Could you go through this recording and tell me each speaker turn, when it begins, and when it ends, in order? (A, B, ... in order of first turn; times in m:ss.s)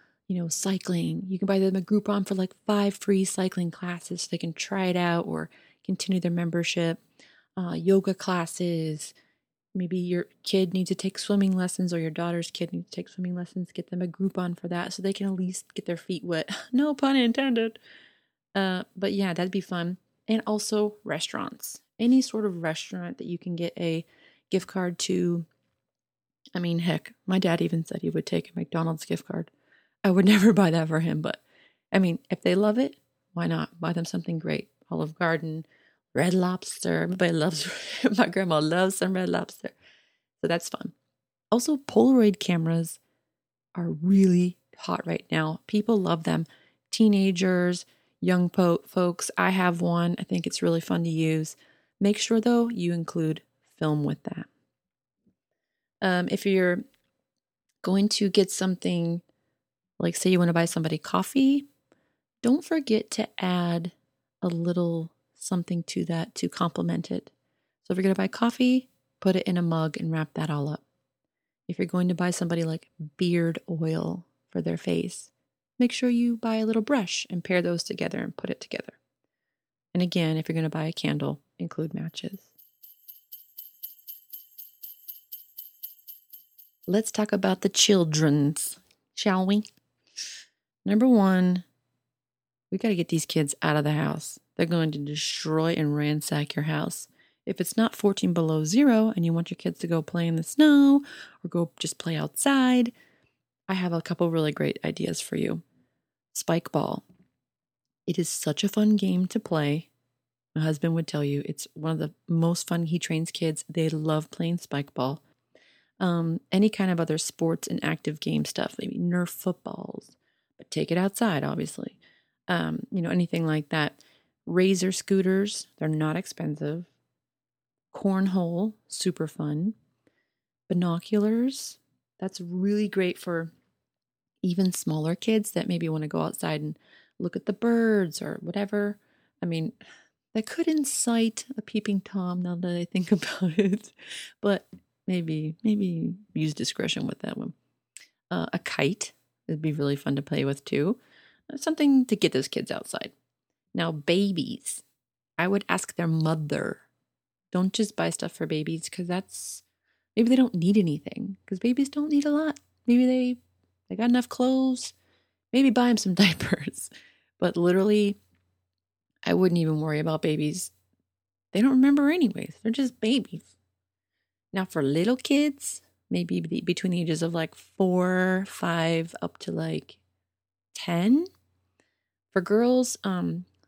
0:00.3-0:07.0 A
0:07.6-0:09.1 A
0:09.8-0:17.8 A
0:18.6-0:25.5 A
0:26.6-0:29.5 A
0:30.0-0:31.4 A
0:31.9-0:39.8 A
0:40.4-0:40.9 A
0:41.5-0:43.0 A
0:43.8-0:54.5 A
0:56.0-0:56.8 A
0:57.8-0:59.2 A
1:00.0-1:01.7 A
1:02.4-1:07.3 A
1:07.8-1:10.8 A
1:11.7-1:19.0 A
1:19.9-1:22.5 A
1:26.9-1:29.7 A
1:30.8-1:31.6 A
1:32.7-1:42.9 A
1:43.7-1:45.6 A
1:46.3-1:47.0 A
1:48.1-1:49.9 A
1:50.6-1:55.2 A
1:56.0-2:02.0 A
2:02.5-2:06.9 A
2:07.9-2:09.8 A
2:10.7-2:13.5 A
2:14.4-2:19.8 A
2:20.3-2:27.6 A
2:28.3-2:31.0 A
2:31.5-2:33.1 A
2:33.8-2:34.8 A
2:35.4-2:36.8 A
2:37.5-2:39.6 A
2:40.2-2:45.0 A
2:45.5-2:48.2 A
2:49.3-2:50.7 A
2:51.5-2:53.5 A
2:54.5-3:00.0 A
3:00.7-3:01.3 A
3:02.3-3:03.5 A